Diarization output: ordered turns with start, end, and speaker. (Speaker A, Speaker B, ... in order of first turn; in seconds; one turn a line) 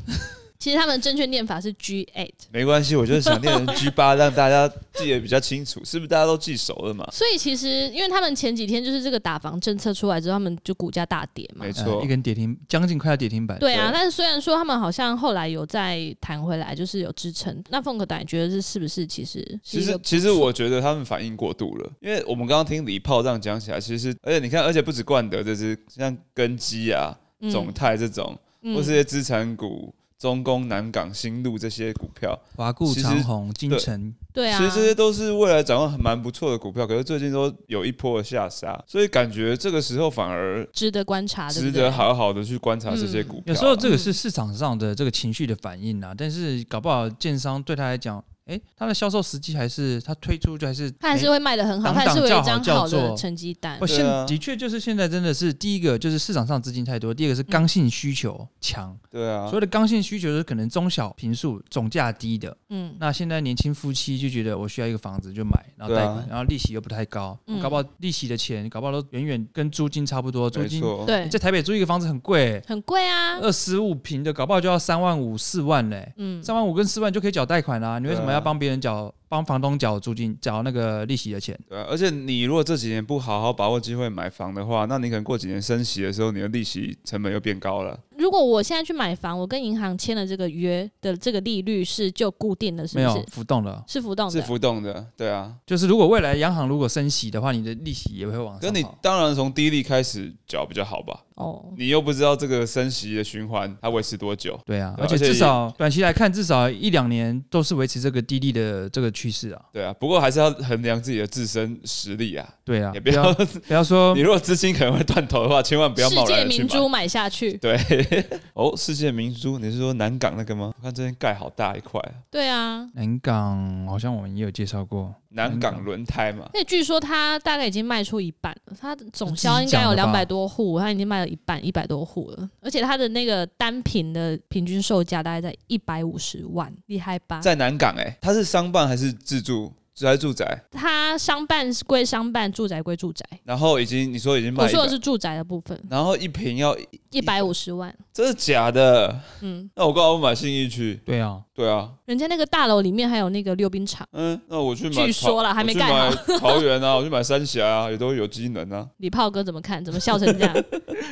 Speaker A: 0.6-2.5
Speaker B: 2.5-7.1
Speaker A: 3.1-3.7
Speaker A: 7.1-11.8
Speaker B: 11.6-12.1
Speaker C: 11.7-13.9
Speaker A: 13.6-20.5
Speaker B: 19.7-33.9
Speaker A: 27.4-27.8
Speaker A: 28.6-29.0
Speaker C: 32.6-34.2
Speaker A: 34.3-35.0
Speaker B: 34.5-40.7
Speaker A: 40.7-42.1
Speaker B: 41.5-43.9
Speaker A: 42.9-44.2
Speaker C: 43.5-53.2
Speaker A: 51.0-53.9
Speaker C: 53.8-72.7
Speaker B: 53.8-54.4
Speaker B: 59.1-59.6
Speaker A: 62.7-63.0
Speaker B: 65.8-66.3
Speaker A: 67.5-67.8
Speaker B: 70.5-71.1
Speaker A: 71.0-71.3
Speaker A: 72.7-73.5
Speaker C: 73.3-81.6
Speaker A: 76.2-76.5
Speaker B: 78.0-78.5
Speaker B: 81.7-88.0
Speaker A: 88.1-93.3
Speaker C: 92.9-93.9
Speaker A: 93.9-94.5
Speaker B: 94.3-95.6
Speaker C: 95.7-99.0
Speaker B: 98.6-101.2
Speaker A: 101.3-101.8
Speaker B: 101.7-105.6
Speaker C: 104.7-109.6
Speaker B: 109.7-116.9
Speaker C: 112.7-114.2
Speaker A: 116.0-117.6
Speaker B: 117.6-122.2
Speaker A: 122.3-122.9
Speaker C: 122.9-125.8
Speaker B: 125.3-126.5
Speaker A: 126.5-137.5
Speaker C: 129.2-130.3
Speaker B: 137.4-140.6
Speaker A: 140.7-143.4
Speaker B: 143.4-145.0
Speaker A: 144.5-145.9
Speaker B: 145.9-147.5
Speaker A: 147.1-148.0
Speaker B: 148.1-151.0
Speaker A: 149.4-149.7
Speaker C: 151.1-151.4
Speaker B: 151.5-151.9
Speaker A: 152.1-154.1
Speaker B: 154.1-158.9
Speaker A: 154.9-156.7
Speaker A: 159.0-160.7